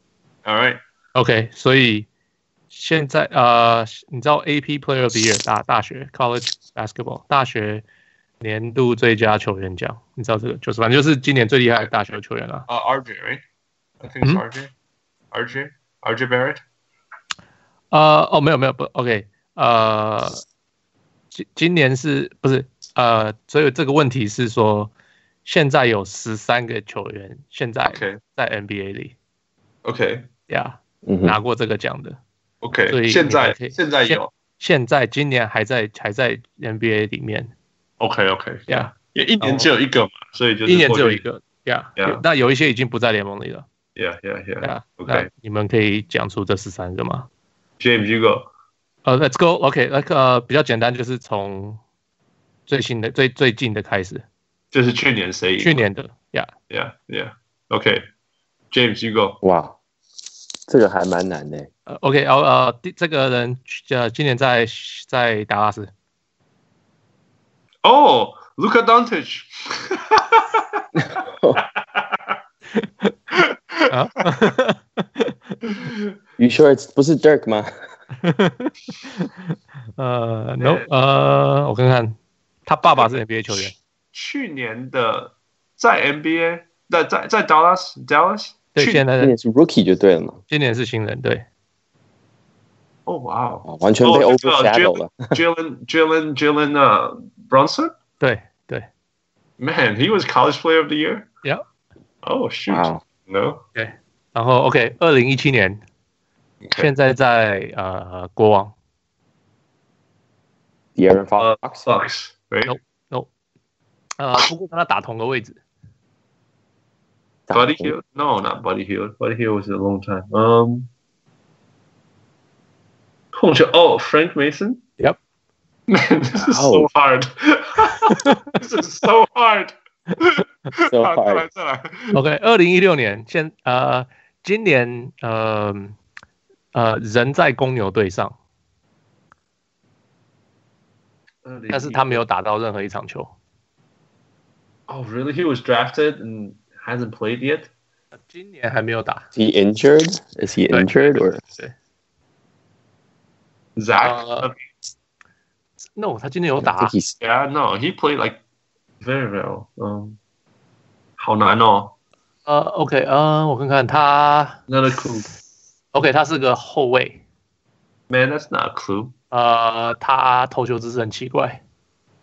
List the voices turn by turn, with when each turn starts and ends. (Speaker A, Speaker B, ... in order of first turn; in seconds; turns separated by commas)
Speaker A: 0.5-0.8, Speaker B: 1.1-2.1, Speaker B: 2.7-7.8, Speaker B: 8.4-12.7, Speaker A: 12.7-13.4, Speaker A: 14.0-14.7, Speaker A: 15.3-16.6, Speaker B: 17.9-20.4, Speaker B: 21.3-24.9, Speaker B: 25.4-29.2, Speaker A: 27.9-28.2, Speaker A: 29.9-30.3, Speaker B: 30.5-32.2, Speaker C: 31.1-31.4, Speaker A: 32.6-34.3, Speaker B: 32.9-37.5, Speaker A: 38.0-41.2, Speaker B: 38.7-39.7, Speaker B: 40.7-43.7, Speaker A: 42.0-42.2, Speaker A: 44.0-45.3, Speaker B: 44.6-47.3, Speaker A: 47.8-48.5, Speaker B: 49.0-51.8, Speaker B: 52.7-54.2, Speaker A: 54.7-55.8, Speaker B: 55.6-56.5, Speaker A: 56.7-58.0, Speaker A: 58.7-59.4, Speaker C: 59.4-59.8, Speaker C: 60.7-61.7, Speaker B: 61.9-65.9, Speaker A: 67.8-70.8, Speaker C: 71.0-71.6, Speaker A: 71.6-72.0, Speaker B: 72.8-73.1, Speaker B: 73.9-75.5, Speaker C: 76.4-77.7, Speaker B: 78.2-79.3, Speaker B: 80.0-83.8, Speaker A: 80.6-80.9, Speaker A: 83.0-83.6, Speaker A: 84.1-89.0, Speaker B: 88.8-89.3, Speaker C: 89.2-90.4, Speaker B: 90.5-91.5, Speaker A: 93.1-97.9, Speaker C: 93.7-95.4, Speaker B: 98.2-98.9, Speaker A: 99.6-101.3, Speaker A: 102.2-103.6, Speaker C: 102.7-103.0, Speaker B: 103.8-105.8, Speaker A: 106.6-106.9, Speaker B: 106.8-108.7, Speaker C: 111.0-111.9, Speaker A: 111.4-112.8, Speaker B: 112.7-113.3, Speaker B: 114.2-115.6, Speaker C: 117.5-118.0, Speaker A: 117.5-120.9, Speaker A: 123.3-124.8, Speaker A: 125.9-132.2, Speaker C: 126.4-126.9, Speaker B: 128.1-128.5, Speaker C: 130.9-131.5, Speaker B: 132.1-136.0, Speaker B: 136.7-138.4, Speaker A: 141.4-142.2, Speaker B: 141.7-143.3, Speaker A: 144.9-147.7, Speaker B: 148.3-149.3, Speaker C: 149.3-151.4, Speaker B: 150.7-151.7, Speaker A: 153.8-154.6, Speaker B: 154.0-154.5, Speaker B: 155.9-156.9, Speaker C: 156.6-157.2, Speaker A: 157.2-158.4, Speaker A: 159.0-160.2, Speaker A: 161.2-161.9, Speaker B: 162.5-164.6, Speaker A: 164.7-165.3, Speaker B: 165.9-167.2, Speaker A: 168.1-169.1, Speaker B: 169.3-171.6